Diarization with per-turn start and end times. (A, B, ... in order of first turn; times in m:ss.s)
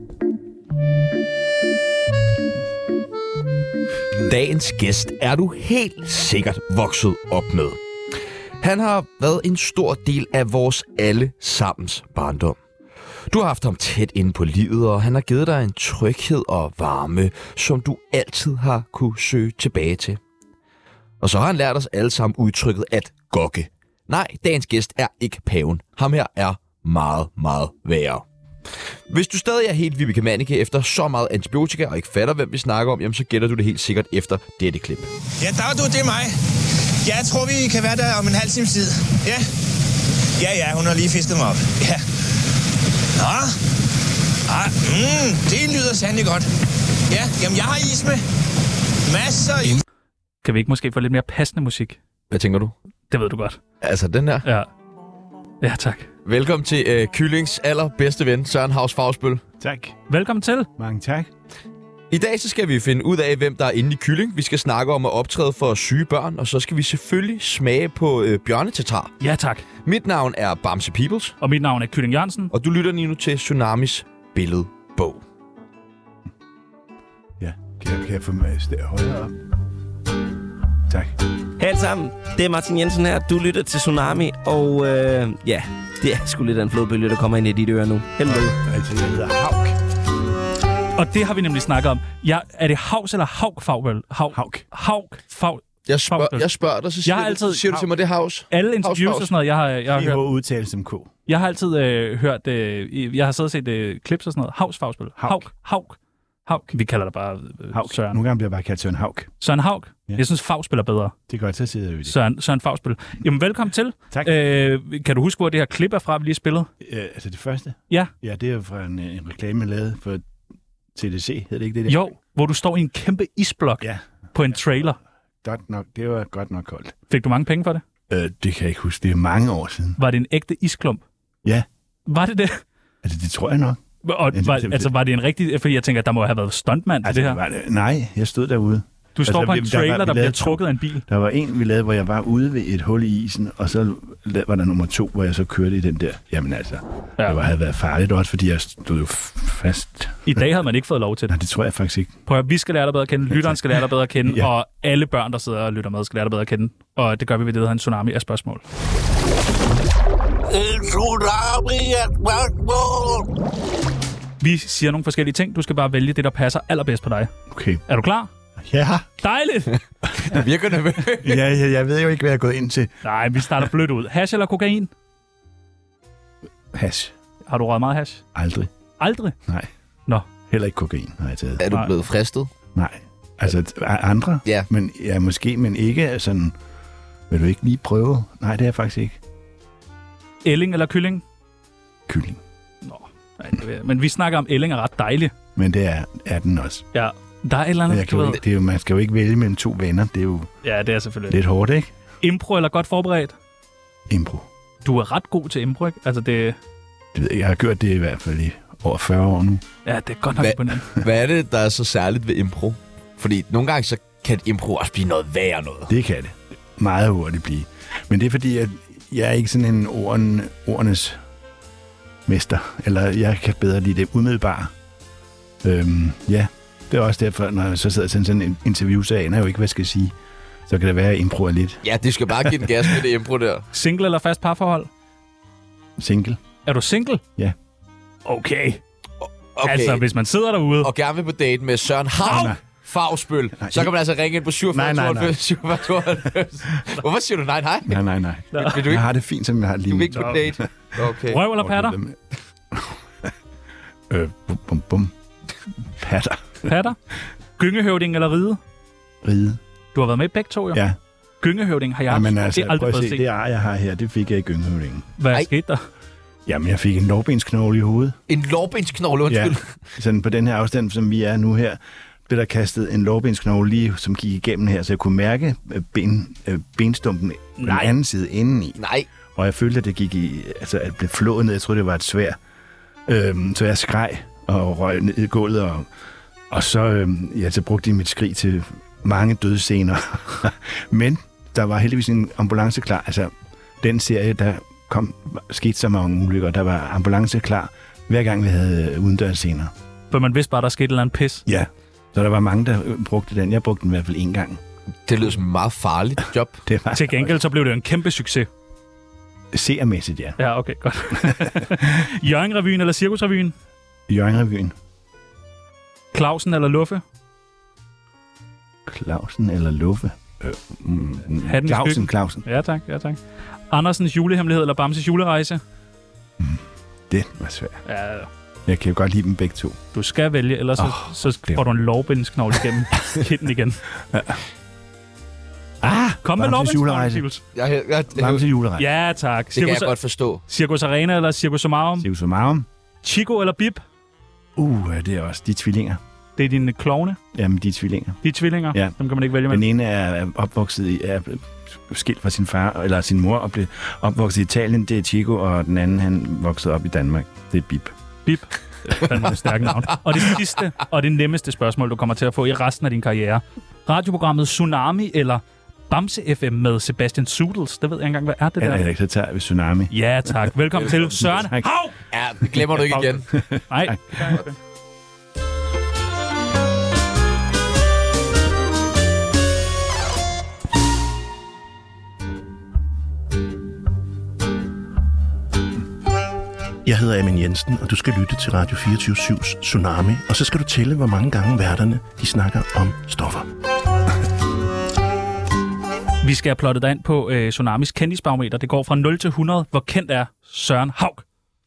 0:04.2-0:07.8 A
0:08.6-0:12.6 A
0:13.3-0:20.2 A
0:21.2-0:28.2 A
0:29.1-0:35.1 A
0:35.4-0:36.4 B
0:37.0-0:39.5 B
0:40.4-0:42.0 B
0:43.2-0:43.6 B
0:44.5-0:46.5 B
0:47.1-0:48.2 B
0:49.0-0:49.8 B
0:50.4-0:52.0 C
0:52.3-0:52.7 A
0:53.1-0:53.6 C
0:53.8-0:54.4 A
0:55.6-0:56.1 C
0:56.2-0:59.4 A
0:59.6-1:00.0 D
1:00.1-1:00.7 C
1:00.8-1:01.3 D
1:02.1-1:09.1 A
1:09.2-1:09.6 C
1:09.8-1:11.4 A
1:11.4-1:12.5 C
1:12.5-1:15.2 A
1:17.4-1:19.3 D
1:20.9-1:21.1 D
1:21.6-1:28.6 E
1:28.2-1:29.8 D
1:31.0-1:36.5 C
1:34.3-1:34.6 D
1:35.9-1:39.3 A
1:37.0-1:37.9 C
1:38.5-1:40.2 C
1:39.9-1:41.1 D
1:41.3-1:48.2 C
1:45.2-1:45.4 D
1:47.7-1:49.3 D
1:49.4-1:51.1 C
1:51.3-1:52.2 D
1:52.0-1:56.7 C
1:56.8-2:00.2 D
2:01.0-2:02.0 D
2:01.9-2:05.0 C
2:05.4-2:07.0 D
2:07.1-2:07.8 C
2:08.1-2:10.0 D
2:10.0-2:11.0 C
2:12.1-2:12.6 C
2:13.0-2:13.8 D
2:14.0-2:17.4 C
2:14.3-2:14.9 D
2:17.0-2:30.4 D
2:19.2-2:21.0 C
2:30.2-2:31.4 C
2:31.3-2:32.2 D
2:32.3-2:38.6 C
2:44.4-2:47.3 C
2:47.5-2:47.8 D
2:47.9-2:48.3 C
2:48.6-2:49.1 D
2:49.2-2:49.8 C
2:50.2-2:51.4 A
2:51.2-2:53.6 D
2:53.0-2:54.9 C
2:56.7-2:57.2 D
2:57.4-2:58.2 C
2:58.4-2:58.7 D
2:59.0-2:59.3 C
3:00.5-3:01.6 D
3:01.6-3:02.5 A
3:02.8-3:06.6 D
3:07.3-3:09.2 D
3:10.4-3:11.2 C
3:12.1-3:12.4 D
3:12.8-3:15.3 C
3:15.6-3:16.9 D
3:16.9-3:18.4 C
3:17.9-3:20.5 D
3:20.6-3:21.4 C
3:21.3-3:21.9 D
3:22.2-3:23.4 C
3:24.1-3:24.5 D
3:24.8-3:26.6 C
3:27.1-3:29.6 D
3:29.9-3:31.0 C
3:30.4-3:35.9 A
3:35.9-3:41.2 D
3:42.2-3:44.7 D
3:45.6-3:50.1 D
3:50.7-3:51.8 D
3:51.8-3:53.6 A
3:53.7-3:54.9 C
3:56.0-3:56.4 D
3:56.6-3:57.2 C
3:58.2-3:58.8 C
3:59.2-4:00.0 A
3:59.6-4:00.9 C
4:00.8-4:08.0 A
4:02.2-4:02.6 D
4:02.2-4:02.6 C
4:03.6-4:03.9 D
4:04.7-4:05.3 D
4:07.9-4:10.6 D
4:08.5-4:08.8 C
4:08.5-4:09.0 A
4:09.9-4:11.4 A
4:10.1-4:10.4 C
4:11.3-4:12.0 C
4:11.5-4:12.2 D
4:12.7-4:13.3 D
4:14.1-4:15.1 D
4:15.8-4:16.7 D
4:16.6-4:17.0 C
4:17.6-4:18.6 C
4:19.2-4:19.6 D
4:19.9-4:20.8 C
4:20.7-4:21.0 D
4:21.4-4:23.2 C
4:22.1-4:25.1 D
4:25.2-4:25.8 C
4:26.4-4:28.2 D
4:28.3-4:29.7 A
4:29.3-4:38.8 D
4:37.6-4:37.9 C
4:38.8-4:39.1 A
4:39.3-4:42.4 D
4:43.1-4:45.9 D
4:46.5-4:59.7 D
5:00.1-5:01.4 C
5:01.4-5:04.6 D
5:05.1-5:06.6 A
5:06.6-5:07.4 D
5:06.9-5:08.5 C
5:09.5-5:10.4 D
5:10.4-5:13.5 C
5:11.1-5:11.8 D
5:14.1-5:14.8 D
5:16.1-5:17.0 C
5:18.8-5:22.4 D
5:21.4-5:23.2 C
5:23.7-5:25.6 C
5:26.4-5:27.8 D
5:27.9-5:28.3 C
5:28.6-5:29.8 D
5:29.9-5:33.8 C
5:30.8-5:31.6 D
5:34.1-5:34.4 D
5:35.8-5:37.2 D
5:36.2-5:37.4 C
5:37.5-5:38.4 A
5:38.1-5:38.9 D
5:38.8-5:42.1 C
5:39.5-5:40.4 A
5:42.0-5:42.7 D
5:43.0-5:43.8 C
5:44.6-5:46.0 D
5:46.4-5:47.2 C
5:47.3-5:48.2 D
5:48.2-5:49.6 C
5:49.5-5:57.9 D
5:58.2-6:08.8 C
6:08.6-6:10.5 D
6:09.9-6:12.0 C
6:11.2-6:11.7 D
6:12.1-6:13.3 A
6:12.7-6:14.5 C
6:13.4-6:14.2 D
6:26.8-6:33.5 F
6:36.2-6:41.2 C